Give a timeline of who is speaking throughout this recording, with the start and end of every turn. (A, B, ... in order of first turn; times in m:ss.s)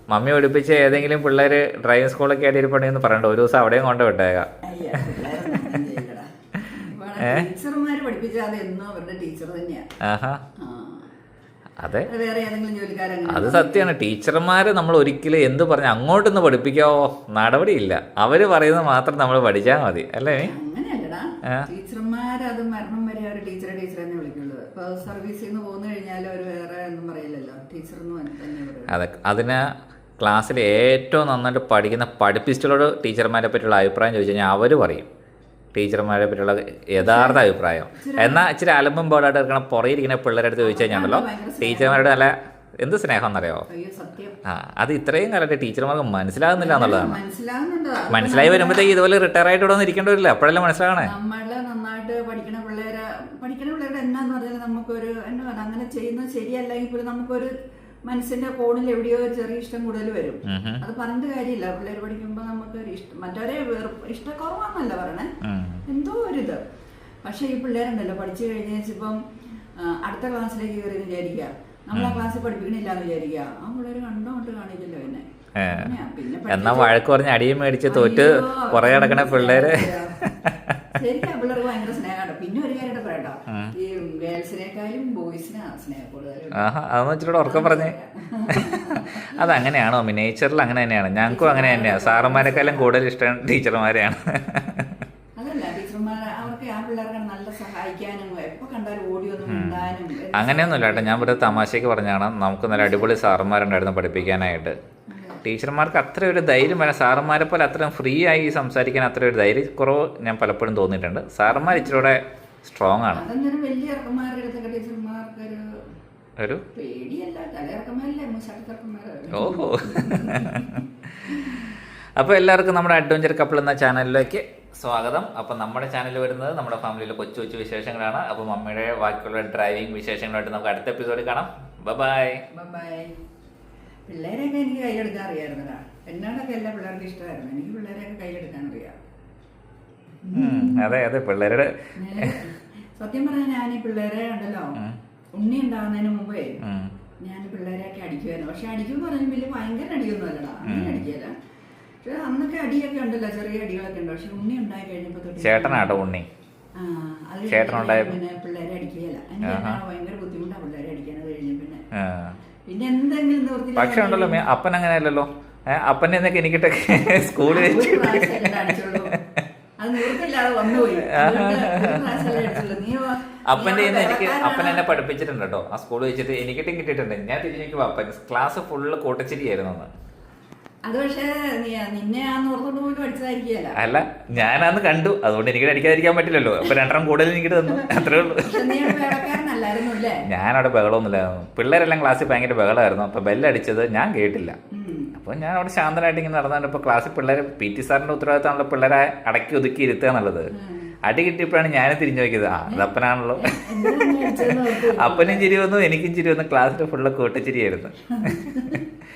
0:00.1-0:05.8 A
0:04.6-0:09.9 B
0:07.2-0:07.5 A
0:10.0-0:10.4 A
0:10.6-0:11.1 B
0:11.8-0:12.1 A
0:12.1-0:13.9 B
0:13.3-0:20.5 A
0:20.3-0:29.0 B
0:28.9-0:29.7 A
0:30.2-0:35.1 A
0:35.7-0:43.7 A
0:37.0-0:37.4 B
0:38.0-0:38.5 B
0:40.6-0:42.2 B
0:43.7-0:44.4 B
0:44.4-0:47.2 A
0:46.6-0:49.0 B
0:48.1-0:51.1 A
0:51.0-0:57.5 B
0:58.1-1:05.3 B
1:00.5-1:00.8 A
1:05.4-1:05.8 A
1:05.9-1:06.6 B
1:07.2-1:09.2 B
1:09.8-1:17.0 B
1:11.9-1:12.3 A
1:15.6-1:15.9 A
1:16.5-1:20.8 A
1:17.9-1:20.2 B
1:21.0-1:26.7 B
1:23.5-1:23.7 A
1:26.6-1:27.9 A
1:27.4-1:29.7 B
1:28.5-1:34.9 A
1:31.2-1:33.0 B
1:35.4-1:42.0 B
1:39.5-1:44.8 A
1:42.7-1:43.2 B
1:45.1-1:45.4 B
1:45.4-1:53.2 A
1:51.5-1:52.1 B
1:53.1-1:55.7 B
1:56.4-1:56.6 A
1:56.7-2:01.6 B
1:59.3-2:12.4 A
2:12.5-2:13.2 B
2:14.1-2:19.0 B
2:20.2-2:20.9 B
2:20.3-2:22.3 A
2:22.0-2:24.8 B
2:25.4-2:26.6 B
2:26.6-2:26.9 A
2:27.2-2:31.3 B
2:30.6-2:31.1 A
2:32.0-2:36.0 B
2:35.4-2:36.3 A
2:36.8-2:41.8 B
2:37.5-2:38.2 A
2:39.4-2:39.8 A
2:41.9-2:42.4 A
2:42.7-2:44.5 B
2:43.8-2:49.2 A
2:47.4-2:49.2 B
2:49.8-2:54.9 B
2:50.8-2:52.6 A
2:53.5-2:59.9 A
3:00.8-3:03.8 B
3:03.8-3:09.3 A
3:07.7-3:10.3 B
3:10.3-3:14.6 A
3:14.7-3:15.2 B
3:15.2-3:20.5 A
3:20.6-3:20.9 B
3:21.0-3:28.8 A
3:22.7-3:25.5 B
3:28.1-3:28.8 B